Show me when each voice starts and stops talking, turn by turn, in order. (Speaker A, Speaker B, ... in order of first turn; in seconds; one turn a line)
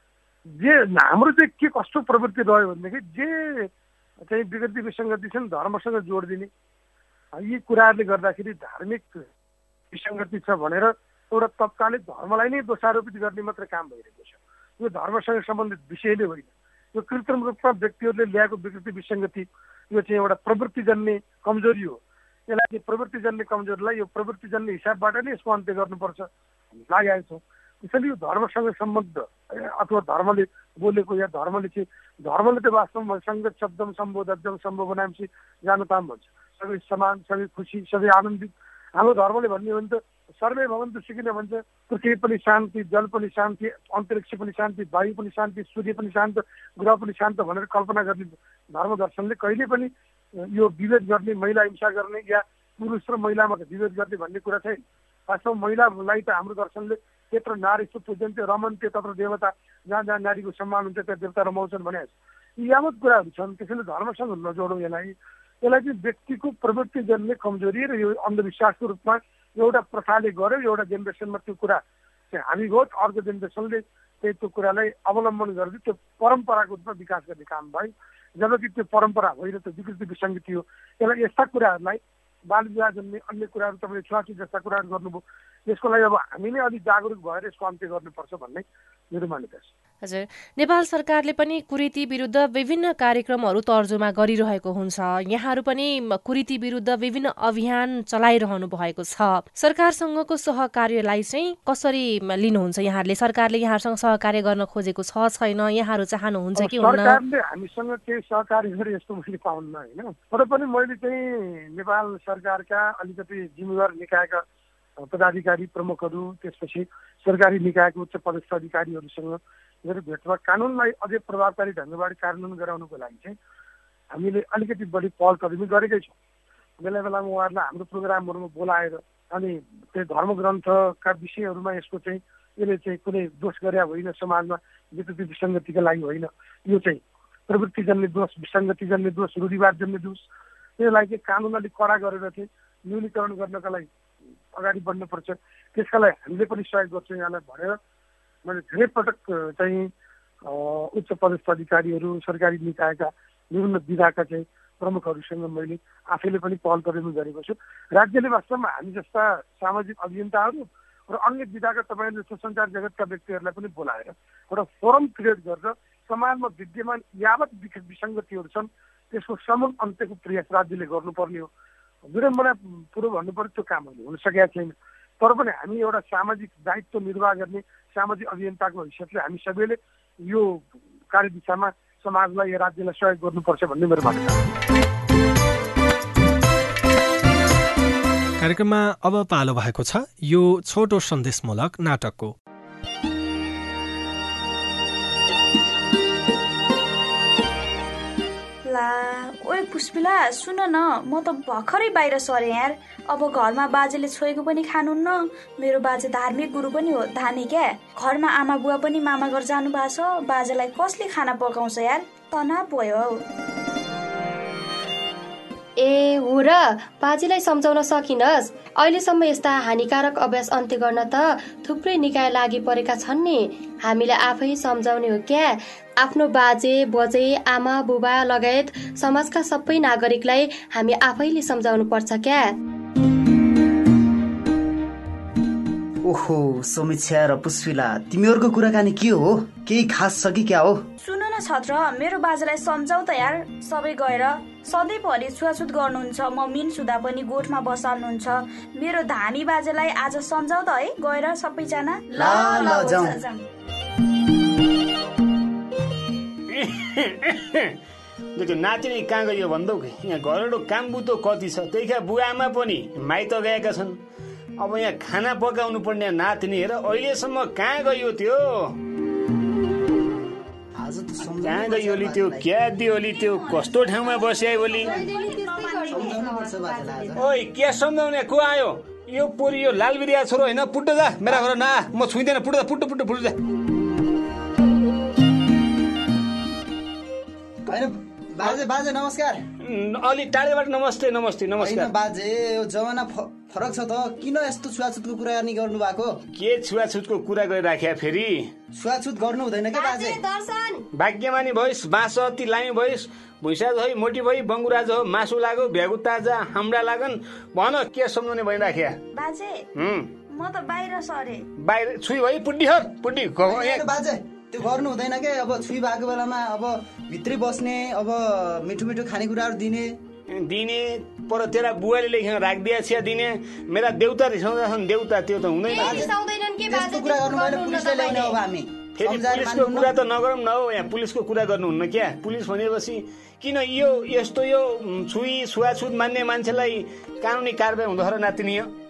Speaker A: 0.6-3.7
Speaker A: 4.2-6.5
Speaker A: 7.3-9.3
Speaker A: 9.9-26.3
Speaker A: 26.8-71.8
Speaker A: 72.3-89.7
Speaker B: 90.0-107.2
Speaker A: 106.6-114.4
Speaker A: 115.0-123.3
Speaker A: 124.1-126.1
Speaker A: 126.8-140.2
Speaker A: 140.8-143.9
Speaker A: 144.6-147.8
Speaker A: 148.4-149.9
Speaker A: 150.4-171.5
Speaker A: 172.1-184.4
Speaker C: 188.4-192.3
Speaker D: 198.7-213.2
Speaker E: 215.8-232.6
Speaker F: 236.1-240.8
Speaker D: 241.0-253.4
Speaker F: 252.1-253.2
Speaker G: 256.5-257.8
Speaker G: 258.4-264.0
Speaker G: 264.6-268.8
Speaker F: 270.8-272.4
Speaker G: 271.4-274.9
Speaker D: 273.1-274.8
Speaker E: 274.7-277.2
Speaker F: 275.9-277.2
Speaker G: 277.2-283.4
Speaker F: 287.7-289.4
Speaker G: 289.6-291.9
Speaker F: 291.6-296.1
Speaker G: 296.3-298.5
Speaker F: 298.8-300.2
Speaker E: 299.7-300.9
Speaker G: 300.9-309.0
Speaker D: 309.1-309.6
Speaker G: 309.7-310.1
Speaker D: 310.3-311.4
Speaker G: 311.6-313.9
Speaker F: 313.4-319.9
Speaker G: 320.3-326.1
Speaker E: 325.6-328.4
Speaker F: 325.8-326.1
Speaker F: 326.7-329.9
Speaker G: 329.0-338.7